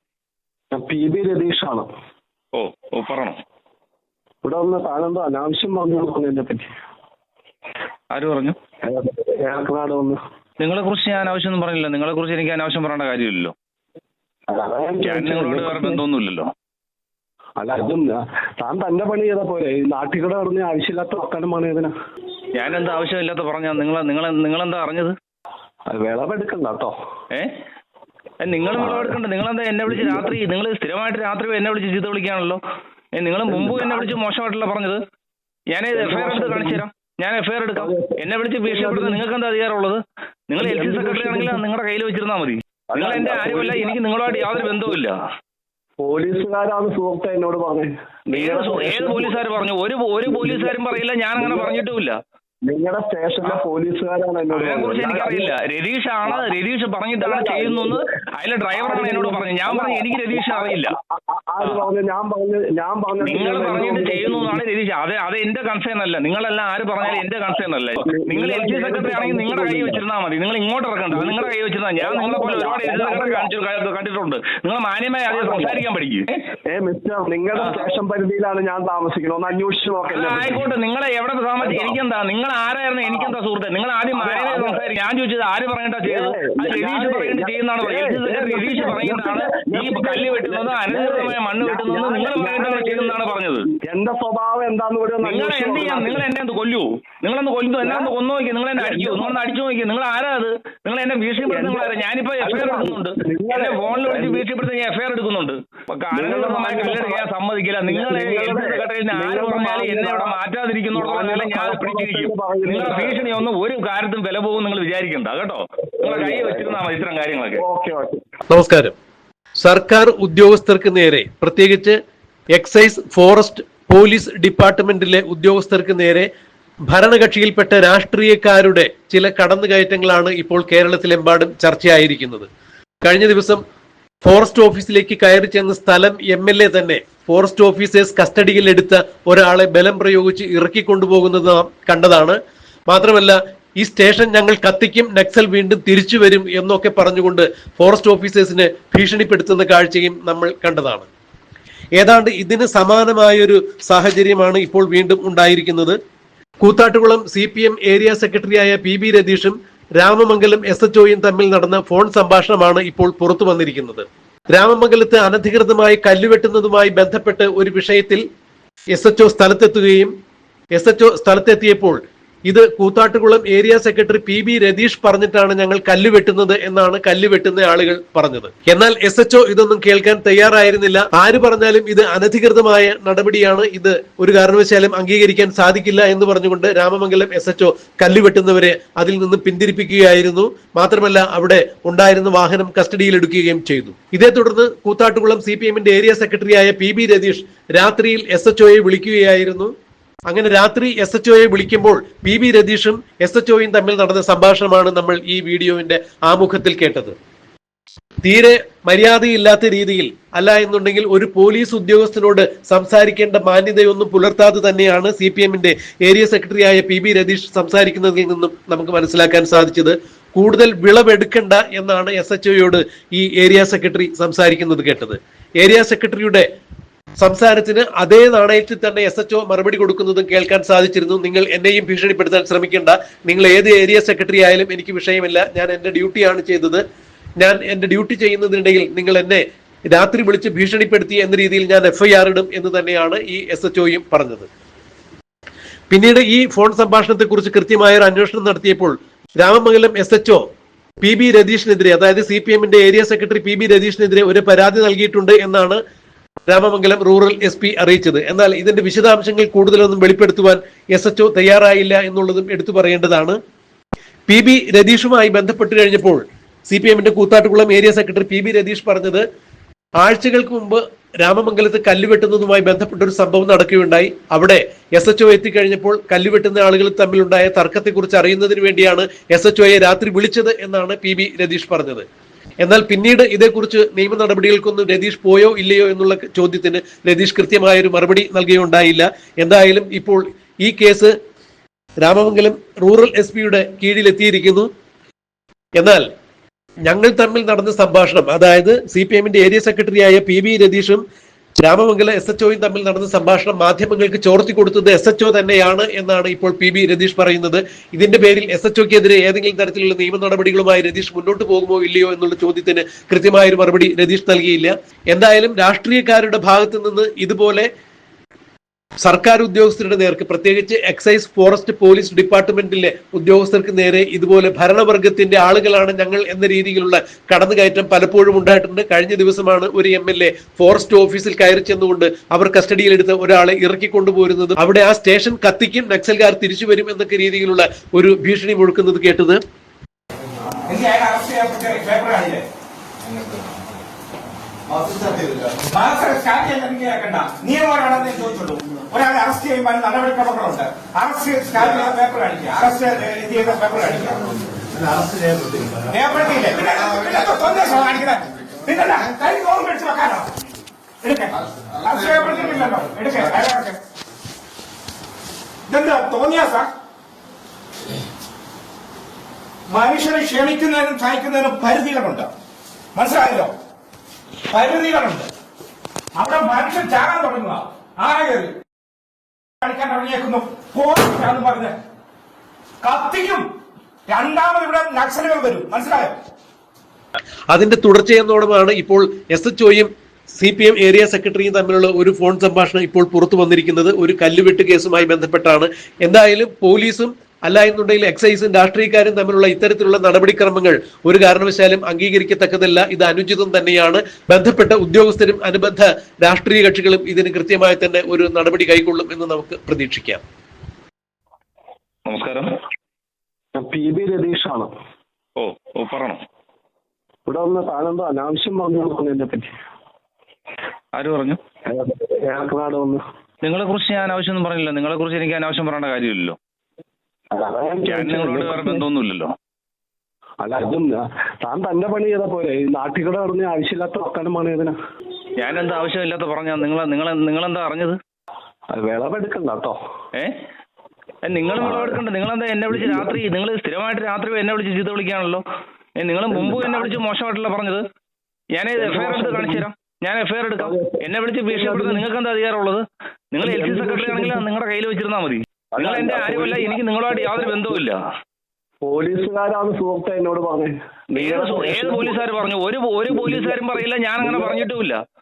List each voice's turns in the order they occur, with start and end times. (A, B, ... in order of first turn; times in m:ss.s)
0:00.7-0:01.9 A
0:02.5-0:03.4 B
0:04.4-0:06.7 A
0:08.1-0:08.6 B
0:08.8-0:10.2 A
0:10.6-0:13.5 B
0:14.5-0:16.0 A
0:15.0-0:16.5 B
0:17.6-0:21.9 A
0:22.5-0:25.1 B
0:25.9-0:26.9 A
0:28.4-0:32.6 B
0:28.8-0:29.2 A
0:29.9-0:30.3 A
0:33.2-0:35.0 B
0:33.5-0:34.2 A
0:35.7-0:45.1 B
0:35.9-0:36.8 A
0:37.8-0:39.2 A
0:40.6-0:41.6 A
0:42.9-0:44.9 A
0:46.0-0:49.4 A
0:48.3-0:52.2 B
0:50.3-0:50.8 A
0:51.4-0:51.7 A
0:52.7-0:55.5 A
0:54.5-1:00.9 B
0:56.3-0:56.5 A
0:57.2-0:58.0 A
0:58.8-1:04.6 A
1:03.2-1:16.4 B
1:08.0-1:10.0 A
1:11.1-1:11.5 A
1:12.0-1:13.5 A
1:15.3-1:15.8 A
1:16.7-1:20.6 A
1:17.5-1:17.8 B
1:20.1-1:33.7 B
1:21.6-1:22.0 A
1:24.1-1:24.8 A
1:26.0-1:33.2 A
1:33.9-1:36.2 A
1:35.2-1:57.6 B
1:37.8-1:38.1 A
1:38.8-1:39.4 A
1:41.4-1:41.9 A
1:42.4-1:44.4 A
1:46.1-1:47.2 A
1:47.9-1:50.4 A
1:50.9-1:53.2 A
1:56.0-1:56.7 A
1:57.6-1:58.2 A
1:58.5-1:58.9 C
1:59.6-2:02.0 C
2:02.5-2:06.3 C
2:06.9-2:12.5 C
2:13.0-2:13.6 C
2:14.2-2:22.4 C
2:22.9-2:31.1 C
2:32.0-2:36.0 C
2:36.6-2:48.2 C
2:48.9-2:50.1 C
2:50.7-3:19.7 C
3:20.3-3:27.1 C
3:28.2-3:46.4 C
3:47.2-3:56.8 C
3:57.4-4:04.5 C
4:05.9-4:10.4 C
4:11.0-4:15.8 C
4:16.5-4:23.4 C
4:24.3-4:29.2 C
4:30.0-4:42.0 C
4:42.6-4:51.1 C
4:52.0-4:54.7 C
4:55.8-4:56.0 C
4:56.8-5:01.0 C
5:01.6-5:17.7 C
5:19.0-5:39.4 C
5:40.7-5:42.4 D
5:43.1-5:43.5 D
5:44.8-5:54.3 D
5:55.7-6:00.3 D
6:01.0-6:03.8 D
6:05.7-6:06.7 D
6:09.7-6:12.3 D
6:12.9-6:13.5 D
6:14.5-6:15.3 D
6:16.1-6:18.5 D
6:19.6-6:21.8 D
6:22.8-6:23.4 D
6:24.1-6:26.1 D
6:27.5-6:50.2 C
6:52.0-6:52.5 B
6:53.6-6:54.7 A
6:55.4-6:56.2 B
6:57.2-6:59.5 A
7:00.9-7:01.4 B
7:01.7-7:03.0 A
7:03.4-7:06.4 B
7:07.3-7:08.8 A
7:07.9-7:09.3 B
7:10.4-7:14.7 A
7:15.4-7:18.0 B
7:18.7-7:19.8 A
7:21.2-7:25.4 B
7:21.6-7:22.0 A
7:22.7-7:23.1 A
7:26.0-7:27.8 B
7:26.3-7:27.0 A
7:28.5-7:38.0 B
7:28.8-7:29.6 A
7:30.6-7:32.0 A
7:33.4-7:34.4 A
7:35.7-7:37.8 A
7:38.8-7:42.2 A
7:41.1-7:45.0 B
7:43.1-7:43.6 A
7:44.2-7:44.6 A